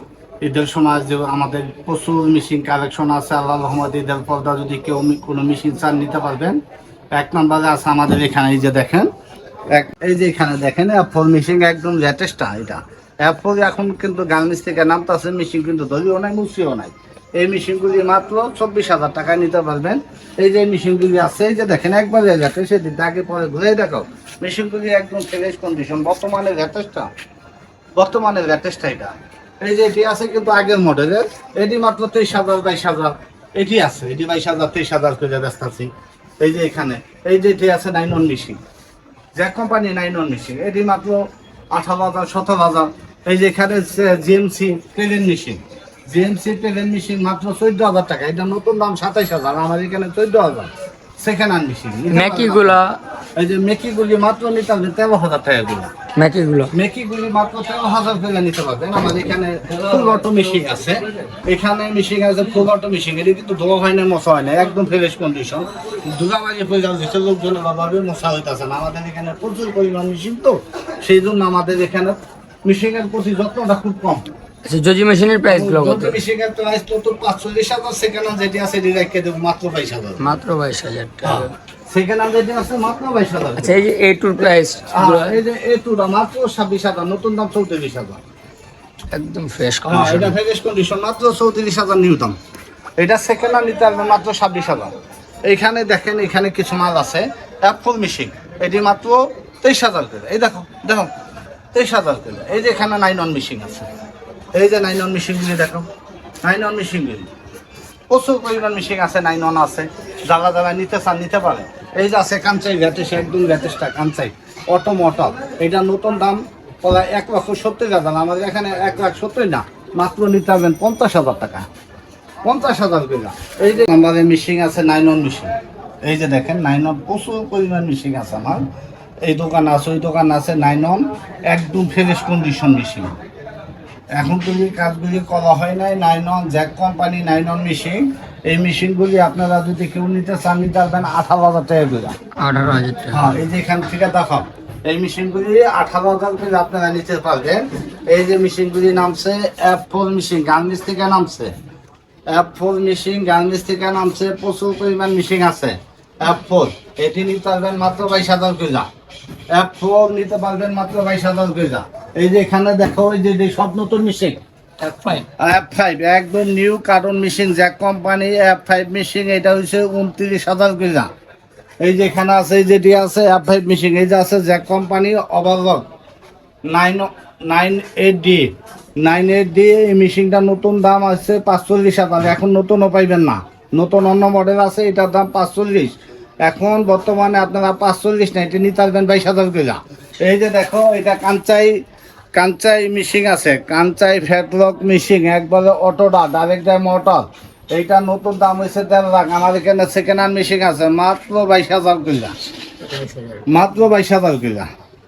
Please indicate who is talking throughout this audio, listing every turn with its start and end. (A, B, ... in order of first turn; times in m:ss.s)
0:00.4-0:06.6 A
0:07.1-0:09.1 A
0:09.7-0:27.1 A
0:28.0-0:38.6 A
0:39.4-0:52.8 A
0:52.1-0:53.0 B
0:53.4-0:55.9 A
0:56.2-0:56.7 B
0:56.7-1:14.3 A
1:14.7-1:16.2 B
1:15.5-1:20.3 A
1:20.2-1:21.5 B
1:21.2-1:23.8 A
1:23.6-1:25.4 B
1:24.9-1:28.2 A
1:29.1-1:30.4 B
1:29.9-1:32.4 A
1:33.0-1:34.9 A
1:35.5-1:41.1 A
1:41.7-1:43.9 A
1:44.6-1:45.9 A
1:46.4-1:47.3 A
1:48.1-2:01.7 A
2:02.4-2:08.7 A
2:09.2-2:13.2 A
2:14.1-2:22.2 A
2:22.4-2:23.4 B
2:23.1-2:31.5 A
2:32.3-2:38.9 A
2:39.5-2:44.4 A
2:44.8-2:45.3 B
2:45.4-2:51.1 A
2:51.8-2:55.9 A
2:56.7-3:11.8 A
3:12.3-3:22.4 A
3:22.8-3:23.4 B
3:23.5-3:24.7 A